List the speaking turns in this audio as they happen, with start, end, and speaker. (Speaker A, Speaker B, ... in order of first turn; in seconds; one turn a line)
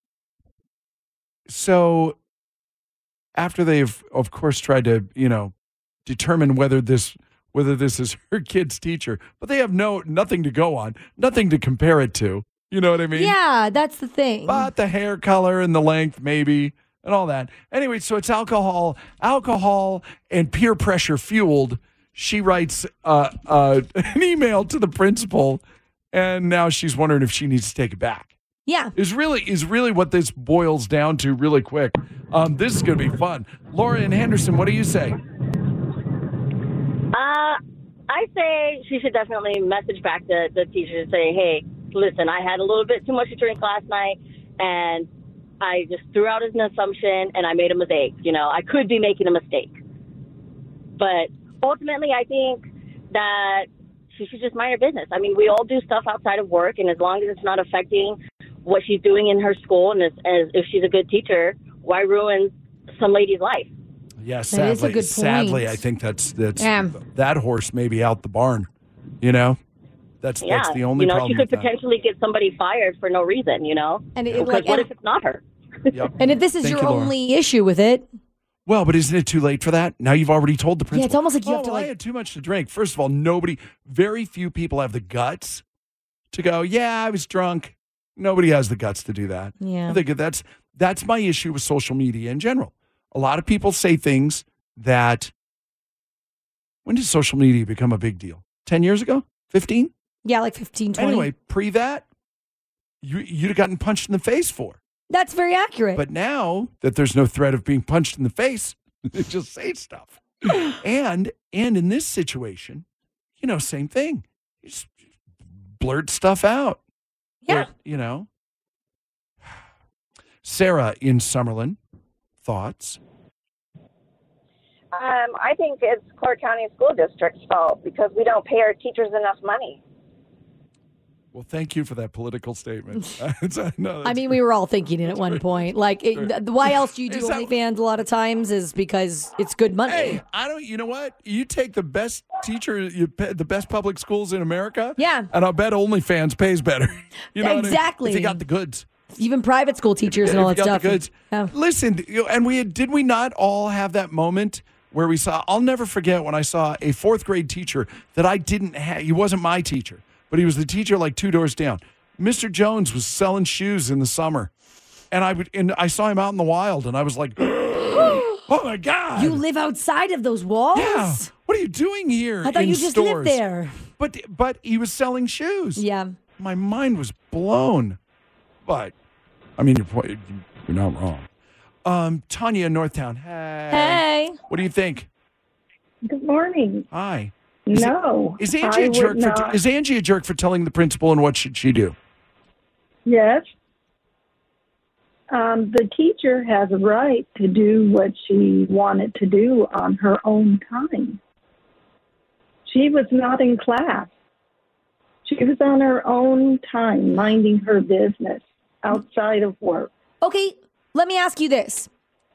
Speaker A: 1.5-2.1
Speaker A: 3.3-5.5
Speaker A: 6.0-13.3
Speaker B: 13.1-14.7
Speaker A: 14.5-28.3
Speaker B: 28.6-28.9
Speaker A: 28.9-35.2
Speaker C: 37.1-37.6
Speaker C: 38.1-45.1
Speaker C: 45.6-49.8
Speaker C: 51.0-63.7
Speaker A: 64.2-68.7
Speaker B: 64.5-65.8
Speaker B: 66.6-66.9
Speaker A: 69.2-69.6
Speaker A: 70.2-71.7
Speaker C: 70.4-75.4
Speaker B: 74.1-74.9
Speaker A: 75.9-77.1
Speaker B: 76.2-78.1
Speaker A: 78.7-85.6
Speaker B: 80.9-81.9
Speaker A: 86.3-95.3
Speaker B: 89.6-90.0
Speaker A: 96.8-99.9
Speaker B: 100.2-101.3
Speaker A: 101.0-102.0
Speaker A: 103.0-104.8
Speaker B: 105.1-106.0
Speaker A: 106.0-112.8
Speaker A: 113.4-114.9
Speaker A: 115.8-116.8
Speaker A: 117.5-118.3
Speaker A: 120.4-121.8
Speaker A: 122.4-123.0
Speaker D: 124.9-129.8
Speaker A: 131.3-134.4
Speaker B: 134.0-140.2
Speaker A: 135.1-137.5
Speaker A: 139.9-148.8
Speaker B: 145.0-145.3
Speaker B: 147.4-148.4
Speaker B: 149.2-151.5
Speaker A: 150.1-164.5
Speaker A: 165.1-169.4
Speaker B: 168.0-168.2
Speaker B: 169.2-171.3
Speaker A: 170.7-173.4
Speaker B: 172.4-173.7
Speaker A: 174.0-175.8
Speaker B: 175.8-176.1
Speaker A: 176.4-178.0
Speaker A: 178.7-178.9
Speaker A: 179.6-181.3
Speaker A: 181.8-185.1
Speaker B: 183.7-184.4
Speaker E: 186.1-186.9
Speaker A: 186.9-191.9
Speaker E: 187.7-189.6
Speaker E: 193.1-193.5
Speaker E: 195.3-201.2
Speaker E: 202.7-204.1
Speaker E: 205.2-209.9
Speaker B: 210.2-211.9